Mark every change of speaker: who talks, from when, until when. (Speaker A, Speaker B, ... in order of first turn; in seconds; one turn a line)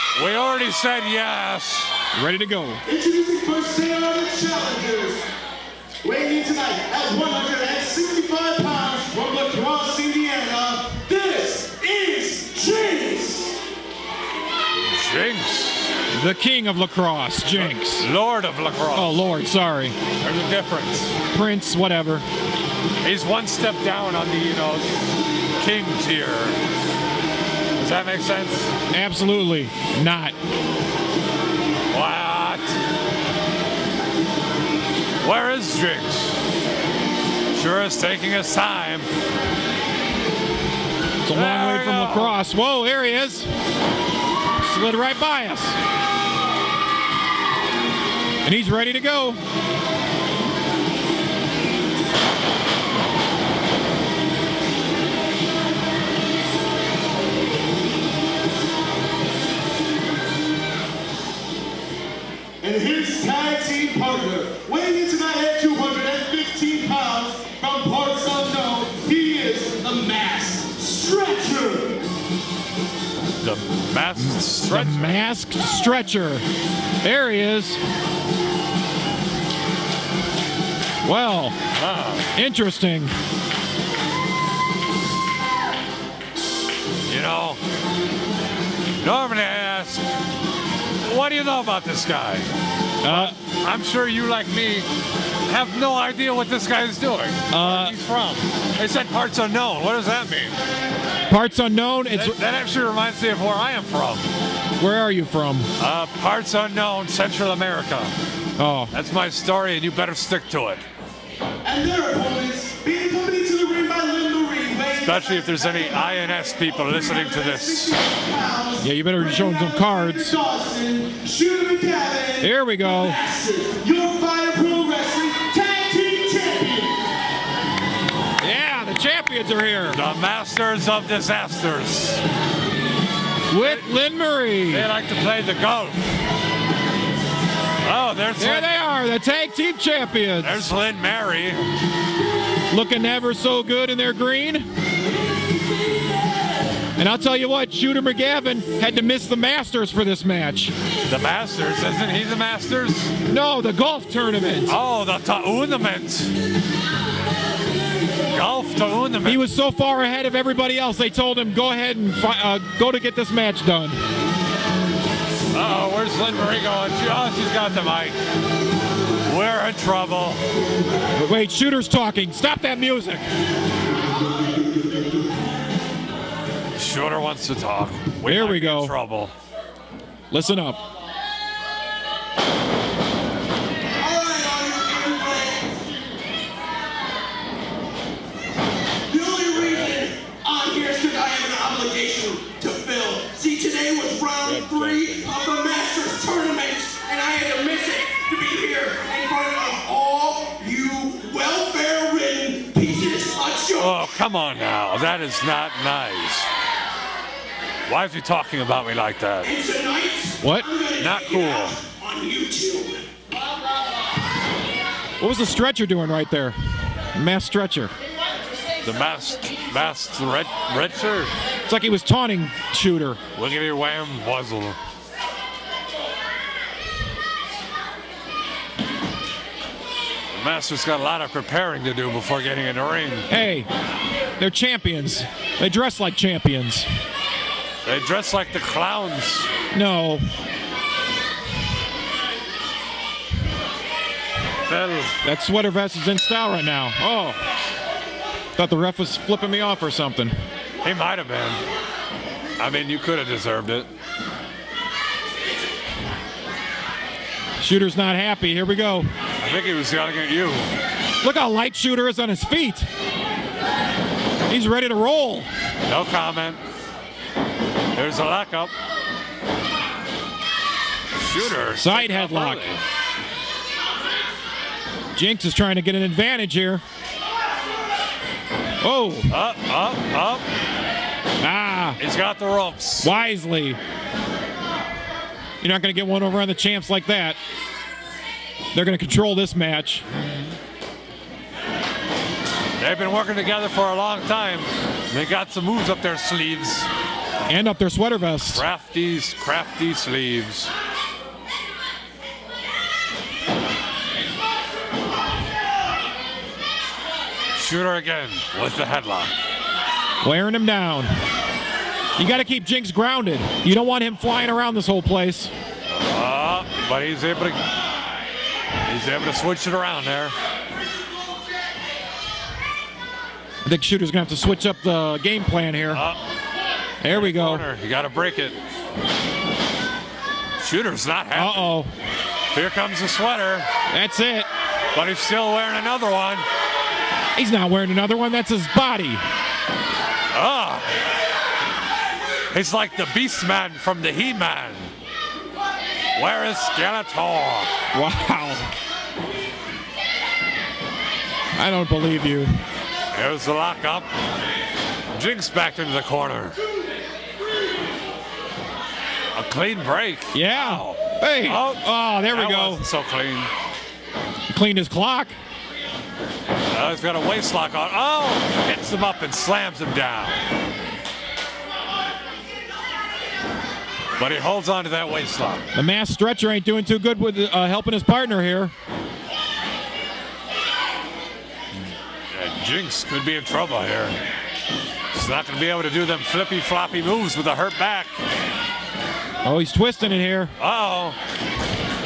Speaker A: 0.1-1.9
Speaker B: 2.1-2.8
Speaker C: 2.9-5.2
Speaker C: 6.0-13.6
Speaker A: 14.8-15.9
Speaker B: 16.1-18.1
Speaker A: 17.5-19.2
Speaker B: 18.9-19.9
Speaker A: 20.2-21.1
Speaker B: 21.3-22.2
Speaker A: 23.0-25.0
Speaker A: 25.6-26.6
Speaker A: 27.8-28.7
Speaker B: 28.9-30.3
Speaker A: 31.9-32.8
Speaker A: 35.2-36.4
Speaker A: 37.5-39.1
Speaker B: 41.2-43.5
Speaker A: 41.3-42.4
Speaker B: 44.6-45.8
Speaker B: 48.4-49.4
Speaker C: 62.6-72.0
Speaker A: 73.4-75.2
Speaker B: 74.7-76.4
Speaker B: 77.0-77.8
Speaker B: 81.0-81.5
Speaker A: 81.7-82.3
Speaker B: 82.3-83.1
Speaker A: 87.1-87.6
Speaker A: 89.0-90.0
Speaker A: 91.0-92.5
Speaker B: 93.0-93.3
Speaker A: 93.0-94.9
Speaker A: 95.5-100.5
Speaker B: 97.5-97.9
Speaker B: 101.3-102.4
Speaker A: 102.1-104.3
Speaker B: 104.8-105.7
Speaker A: 105.8-108.1
Speaker B: 108.6-108.9
Speaker A: 108.9-110.8
Speaker C: 111.6-127.0
Speaker A: 115.0-117.9
Speaker B: 118.8-120.4
Speaker B: 122.4-123.2
Speaker B: 128.4-130.0
Speaker A: 129.9-132.2
Speaker B: 133.5-134.9
Speaker A: 133.6-133.9
Speaker A: 134.7-136.0
Speaker A: 137.8-138.7
Speaker B: 138.4-140.7
Speaker A: 140.4-141.6
Speaker B: 142.7-144.7
Speaker B: 146.9-150.7
Speaker A: 151.1-153.1
Speaker B: 153.3-154.8
Speaker A: 154.7-156.3
Speaker A: 158.3-159.4
Speaker B: 159.2-164.0
Speaker A: 165.5-168.2
Speaker A: 169.2-170.4
Speaker B: 171.2-173.2
Speaker A: 176.8-179.3
Speaker B: 178.2-178.9
Speaker B: 180.3-180.8
Speaker C: 184.0-185.8
Speaker C: 189.1-204.2
Speaker A: 189.5-190.1
Speaker A: 194.4-195.3
Speaker A: 203.8-206.5
Speaker A: 207.9-209.5
Speaker C: 209.4-213.1
Speaker B: 210.4-210.7
Speaker A: 211.0-211.8
Speaker B: 215.2-216.5
Speaker B: 217.1-217.9
Speaker A: 218.8-221.3
Speaker B: 221.7-223.2
Speaker A: 223.3-224.8
Speaker A: 230.3-233.3
Speaker B: 233.3-233.7
Speaker B: 234.4-236.9
Speaker A: 237.8-239.5
Speaker B: 239.7-240.2
Speaker A: 244.7-245.2
Speaker B: 245.2-247.4
Speaker B: 248.6-250.3
Speaker A: 250.8-251.6
Speaker A: 252.6-253.9
Speaker B: 257.6-259.1
Speaker A: 259.4-260.7
Speaker B: 261.2-262.9
Speaker B: 264.5-265.5
Speaker A: 265.9-266.6
Speaker A: 267.9-268.7
Speaker A: 271.1-272.8
Speaker B: 271.6-272.6
Speaker B: 275.1-276.8
Speaker B: 278.8-279.3
Speaker A: 279.3-280.4
Speaker B: 281.4-282.0
Speaker A: 282.0-283.1
Speaker B: 283.0-283.8
Speaker B: 285.6-287.4
Speaker B: 288.7-290.0
Speaker A: 290.2-290.5
Speaker A: 292.8-296.9
Speaker B: 297.5-298.6
Speaker A: 298.5-300.7
Speaker A: 307.5-309.3
Speaker B: 310.2-311.1
Speaker B: 312.2-315.5
Speaker A: 315.9-317.6
Speaker A: 318.8-320.3
Speaker B: 323.6-326.0
Speaker A: 325.9-326.2
Speaker B: 327.0-327.6
Speaker A: 327.1-328.6
Speaker A: 330.6-331.8
Speaker B: 331.3-331.9
Speaker A: 332.5-333.6
Speaker B: 333.9-334.5
Speaker A: 334.9-336.4
Speaker B: 337.4-339.2
Speaker A: 340.3-340.9
Speaker A: 342.5-344.9
Speaker A: 346.1-347.7
Speaker B: 347.9-348.7
Speaker B: 351.6-352.5
Speaker A: 353.1-354.1
Speaker A: 355.1-356.6
Speaker A: 359.3-363.5
Speaker B: 360.3-362.8
Speaker B: 364.5-365.3
Speaker A: 366.7-370.4
Speaker A: 374.2-375.6
Speaker B: 375.7-378.7
Speaker A: 382.3-384.1
Speaker A: 385.1-388.1
Speaker B: 389.4-390.5
Speaker A: 390.6-391.1